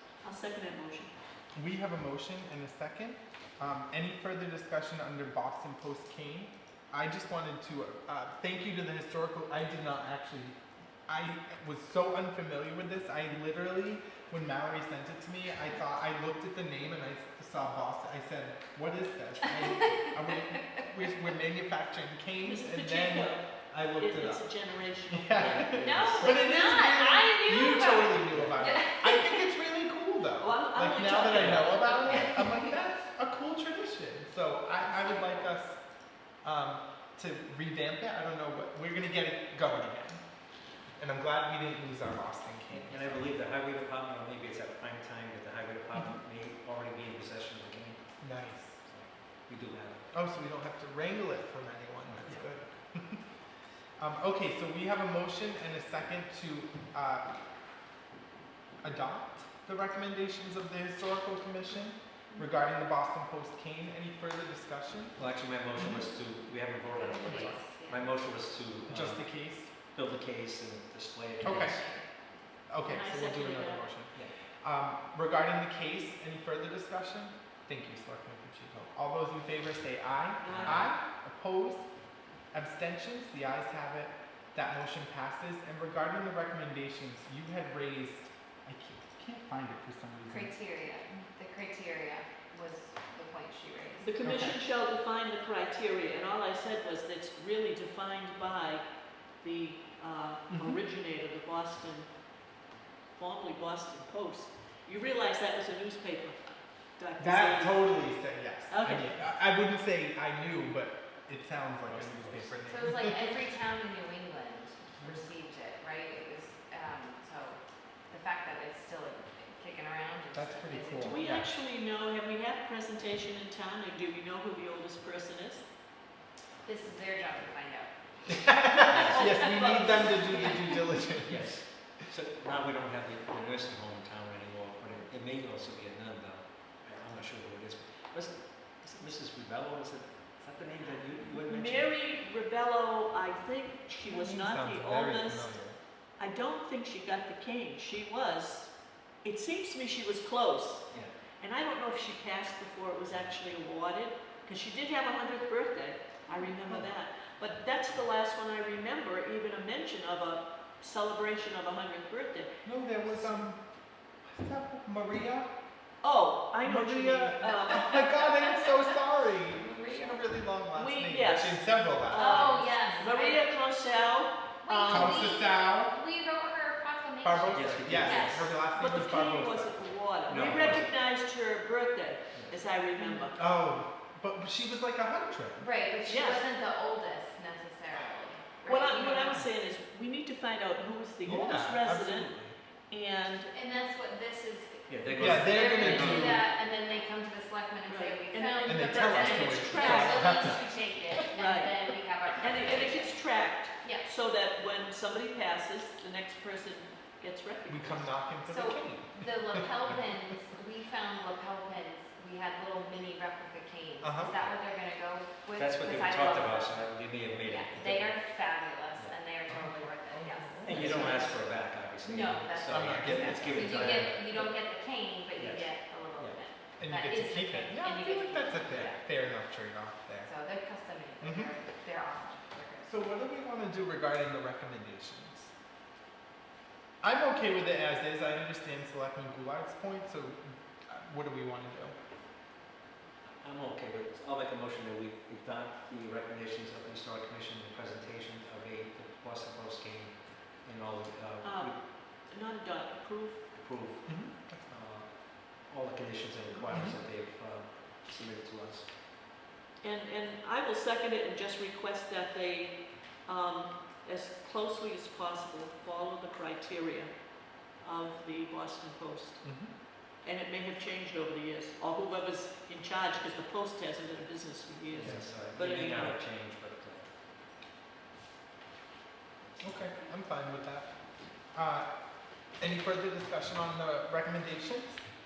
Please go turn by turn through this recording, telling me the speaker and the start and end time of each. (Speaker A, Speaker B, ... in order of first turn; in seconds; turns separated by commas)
Speaker A: 0.2-1.1, Speaker B: 1.5-10.6, Speaker B: 11.1-35.8, Speaker A: 22.4-25.6, Speaker C: 25.4-26.5, Speaker D: 25.6-29.5, Speaker A: 30.4-32.3, Speaker C: 31.3-31.6, Speaker D: 32.2-32.7, Speaker B: 36.4-40.2, Speaker B: 41.0-43.3, Speaker C: 42.8-48.1, Speaker B: 48.2-48.8, Speaker C: 48.9-50.1, Speaker B: 50.1-53.2, Speaker C: 52.1-52.5, Speaker B: 54.0-57.3, Speaker B: 58.8-65.2, Speaker C: 65.2-69.3, Speaker B: 65.8-66.0, Speaker D: 66.9-68.1, Speaker B: 68.9-69.7, Speaker C: 69.9-71.9, Speaker B: 71.4-71.8, Speaker D: 71.6-72.0, Speaker B: 72.7-81.8, Speaker A: 72.8-73.9, Speaker A: 80.4-80.9, Speaker C: 80.4-80.9, Speaker B: 82.5-90.5, Speaker D: 90.3-94.1, Speaker A: 94.0-102.3, Speaker B: 94.2-94.6, Speaker B: 100.5-100.8, Speaker A: 103.1-108.0, Speaker B: 107.2-113.2, Speaker A: 108.7-109.2, Speaker C: 111.9-112.6, Speaker D: 112.7-121.3, Speaker B: 115.0-115.2, Speaker B: 120.3-121.5, Speaker A: 121.0-125.7, Speaker D: 126.6-127.9, Speaker B: 128.4-131.9, Speaker C: 128.9-129.2, Speaker A: 129.1-130.7, Speaker D: 129.1-130.7, Speaker C: 131.2-141.9, Speaker A: 141.4-145.6, Speaker B: 144.0-145.8, Speaker A: 146.2-162.5, Speaker B: 162.6-163.6, Speaker A: 163.0-163.4, Speaker B: 164.2-165.5, Speaker A: 166.0-168.0, Speaker B: 166.6-172.7, Speaker D: 167.5-170.2, Speaker A: 170.7-175.2, Speaker D: 172.1-173.7, Speaker D: 174.6-178.5, Speaker B: 174.7-176.0, Speaker B: 177.2-179.7, Speaker C: 177.5-178.5, Speaker A: 178.7-183.4, Speaker C: 180.3-180.9, Speaker D: 183.0-183.3, Speaker B: 183.3-185.7, Speaker D: 185.6-189.5, Speaker A: 186.1-186.4, Speaker A: 188.6-192.3, Speaker B: 191.2-192.5, Speaker A: 192.9-193.5, Speaker D: 193.5-203.2, Speaker C: 194.9-196.4, Speaker B: 195.2-196.4, Speaker A: 197.9-200.6, Speaker B: 198.6-201.2, Speaker A: 201.3-208.1, Speaker D: 203.8-204.1, Speaker B: 207.7-209.7, Speaker D: 208.5-229.0, Speaker B: 214.0-214.3, Speaker C: 215.6-218.2, Speaker B: 219.5-221.2, Speaker C: 220.7-224.7, Speaker B: 222.7-224.0, Speaker C: 225.3-226.4, Speaker B: 226.8-230.3, Speaker D: 230.2-232.9, Speaker B: 231.2-231.5, Speaker B: 232.8-235.5, Speaker B: 237.0-241.9, Speaker C: 243.4-251.8, Speaker A: 251.4-253.4, Speaker C: 253.5-258.9, Speaker B: 254.0-254.8, Speaker B: 256.7-257.0, Speaker A: 259.8-276.2, Speaker B: 269.4-269.7, Speaker C: 274.9-277.1, Speaker C: 279.4-279.9, Speaker B: 279.6-280.9, Speaker B: 281.5-281.9, Speaker B: 282.5-285.0